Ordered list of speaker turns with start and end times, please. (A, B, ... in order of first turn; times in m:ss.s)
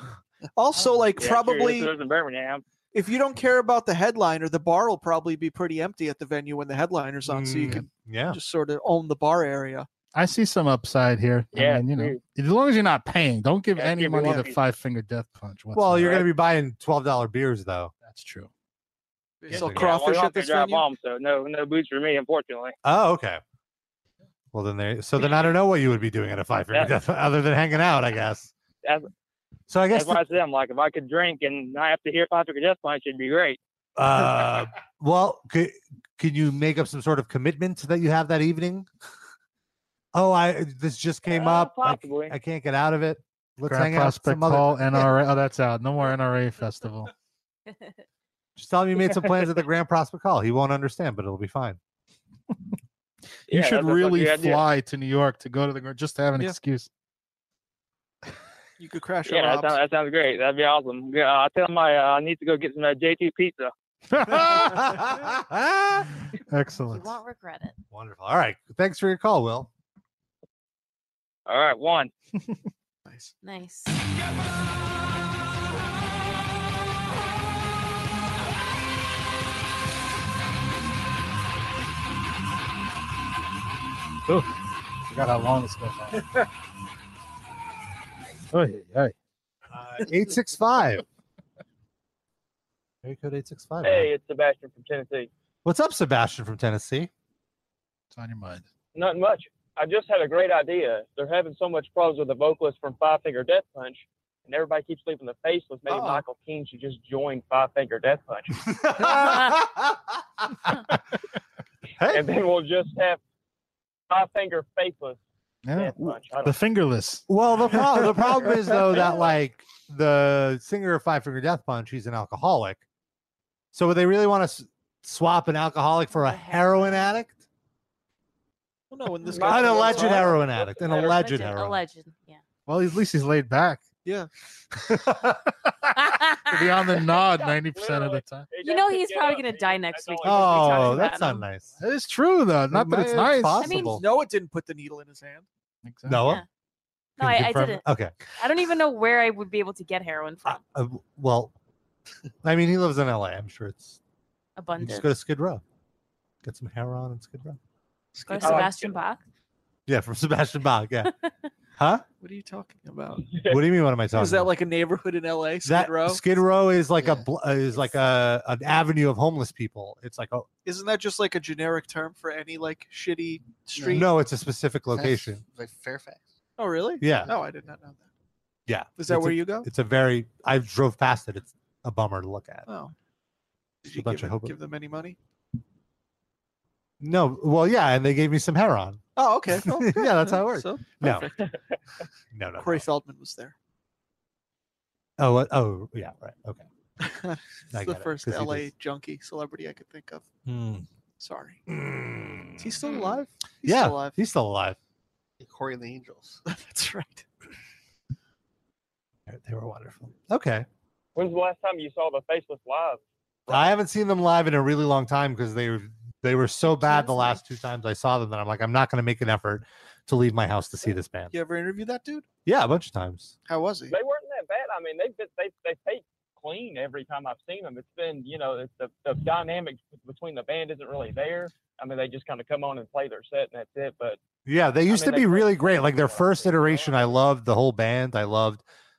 0:00.6-0:01.9 A
0:01.2-0:02.6 B
0:02.9-0:09.9 A
0:07.3-0:08.4 C
0:10.2-0:16.2 D
0:11.5-0:12.2 B
0:13.8-0:14.6 B
0:15.8-0:17.9 C
0:18.0-0:18.5 D
0:19.4-0:20.9 A
0:19.5-0:20.0 C
0:19.6-0:22.8 B
0:22.8-0:23.4 C
0:24.5-0:28.5 C
0:29.7-0:30.2 C
0:29.9-0:33.6 B
0:34.0-0:38.9 C
0:40.1-0:45.1 C
0:41.3-0:42.3 B
0:43.6-0:47.1 D
0:47.7-0:48.0 E
0:48.6-0:51.8 C
0:53.5-0:56.9 D
0:53.5-0:54.6 B
0:58.8-0:59.8 A
0:59.3-1:03.7 B
1:04.1-1:05.0 D
1:04.5-1:06.1 C
1:06.5-1:07.1 D
1:06.9-1:07.8 E
1:07.9-1:09.7 C
1:11.5-1:12.1 B
1:13.1-1:13.3 A
1:13.4-1:14.0 E
1:25.1-1:26.2 D
1:28.5-1:29.2 D
1:29.7-1:31.0 C
1:33.0-1:34.1 C
1:33.8-1:35.3 B
1:35.6-1:37.1 C
1:38.1-1:38.7 D
1:39.0-1:49.0 B
1:48.7-1:50.0 C
1:52.0-1:52.3 C
1:52.1-1:53.2 B
1:54.1-1:55.2 B
1:55.7-1:57.3 D
1:55.8-1:56.6 B
1:57.3-2:02.8 C
2:03.7-2:07.4 C
2:08.9-2:10.5 A
2:09.2-2:11.2 B
2:09.4-2:11.8 C
2:10.9-2:12.4 E
2:12.7-2:13.8 D
2:14.9-2:15.3 C
2:15.7-2:18.5 D
2:16.2-2:16.5 E
2:17.1-2:21.1 B
2:18.6-2:21.5 E
2:20.2-2:21.8 C
2:21.8-2:23.7 D
2:22.7-2:24.0 C
2:23.6-2:24.0 E
2:23.8-2:25.5 A
2:25.8-2:26.2 D
2:26.1-2:26.4 C
2:27.2-2:27.8 E
2:27.2-2:28.1 C
2:28.4-2:30.6 E
2:30.4-2:31.5 C
2:32.4-2:34.0 C
2:34.6-2:35.2 E
2:34.8-2:35.6 C
2:36.4-2:37.6 C
2:38.2-2:39.0 A
2:38.3-2:39.2 E
2:38.4-2:38.8 B
2:39.9-2:41.1 C
2:41.8-2:42.0 C
2:42.2-2:43.3 A
2:43.2-2:43.6 B
2:43.5-2:44.5 C
2:44.1-2:46.3 A
2:45.6-2:50.5 C
2:50.6-2:54.2 A
2:53.8-2:55.4 C
2:54.9-2:56.3 F
2:56.6-2:58.1 A
2:57.0-2:57.3 C
2:58.7-3:02.7 C
2:59.0-2:59.7 A
3:02.7-3:02.9 A
3:03.8-3:05.2 A
3:03.9-3:04.6 C
3:07.0-3:09.0 C
3:09.2-3:11.5 A
3:09.6-3:11.3 C
3:12.3-3:12.9 C
3:12.6-3:13.5 A
3:15.2-3:16.6 C
3:17.0-3:20.3 A
3:17.7-3:18.7 C
3:20.4-3:20.9 C
3:21.2-3:21.6 A
3:21.7-3:22.7 C
3:22.6-3:24.2 A
3:23.6-3:24.8 C
3:25.4-3:26.4 F
3:26.5-3:27.3 A
3:29.3-3:30.7 C
3:31.2-3:33.7 B
3:33.5-3:41.3 C
3:36.6-3:37.4 E
3:41.3-3:42.3 A
3:42.5-3:43.4 C
3:43.5-3:44.0 A
3:43.9-3:54.2 B
3:54.5-3:58.6 C
3:54.9-3:57.2 B